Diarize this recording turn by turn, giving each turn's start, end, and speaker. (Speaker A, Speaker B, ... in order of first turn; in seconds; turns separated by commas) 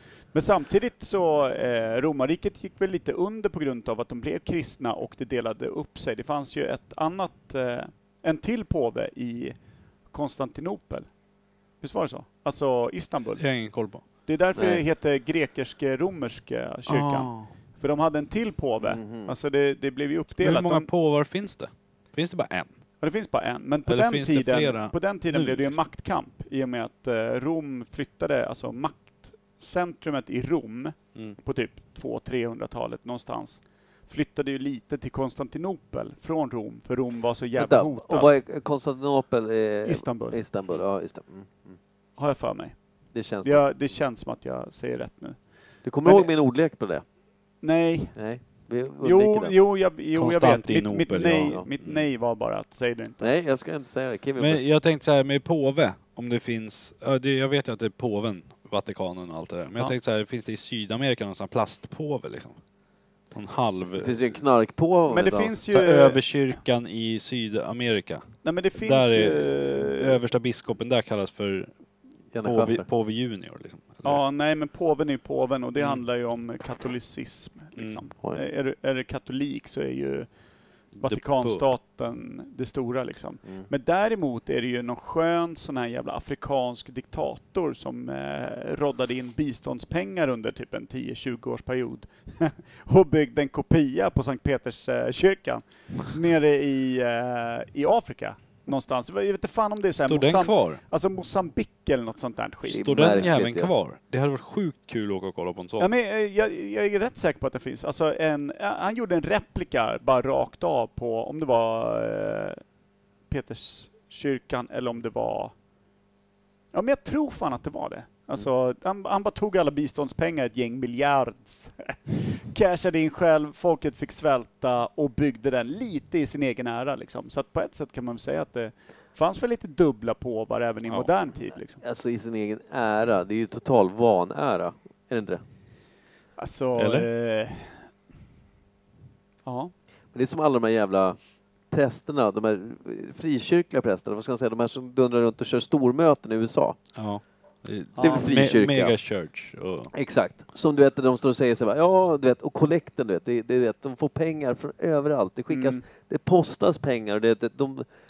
Speaker A: 0.3-9.6, Speaker A: 10.1-11.1, Speaker A: 11.8-13.4, Speaker B: 13.4-14.0, Speaker A: 14.3-20.9, Speaker C: 14.6-14.8, Speaker B: 16.9-17.5, Speaker C: 18.8-19.3, Speaker B: 20.4-22.7, Speaker A: 23.0-38.4, Speaker B: 23.9-25.8, Speaker C: 37.6-41.8, Speaker A: 39.9-40.4, Speaker A: 42.2-42.8, Speaker C: 43.1-43.6, Speaker A: 43.4-45.4, Speaker C: 45.8-47.0, Speaker A: 46.0-46.3, Speaker A: 47.6-48.1, Speaker C: 48.1-49.5, Speaker A: 49.0-53.3, Speaker B: 50.1-51.9, Speaker C: 53.2-54.6, Speaker B: 54.4-62.6, Speaker B: 63.3-64.2, Speaker C: 64.0-65.5, Speaker A: 65.1-66.2, Speaker B: 65.7-71.7, Speaker A: 68.4-70.2, Speaker C: 72.3-72.9, Speaker B: 72.4-74.2, Speaker A: 74.0-80.3, Speaker B: 81.0-81.7, Speaker A: 81.0-103.2, Speaker B: 100.1-100.8, Speaker C: 102.7-103.7, Speaker B: 102.8-105.9, Speaker A: 105.8-112.6, Speaker A: 113.3-115.5, Speaker A: 116.7-131.8, Speaker C: 131.8-135.4, Speaker A: 136.4-137.9, Speaker B: 136.8-137.1, Speaker A: 139.4-139.7, Speaker C: 140.1-141.2, Speaker C: 141.7-146.8, Speaker B: 146.9-149.9, Speaker A: 148.0-148.4, Speaker C: 148.0-148.9, Speaker C: 149.9-157.9, Speaker A: 155.5-155.8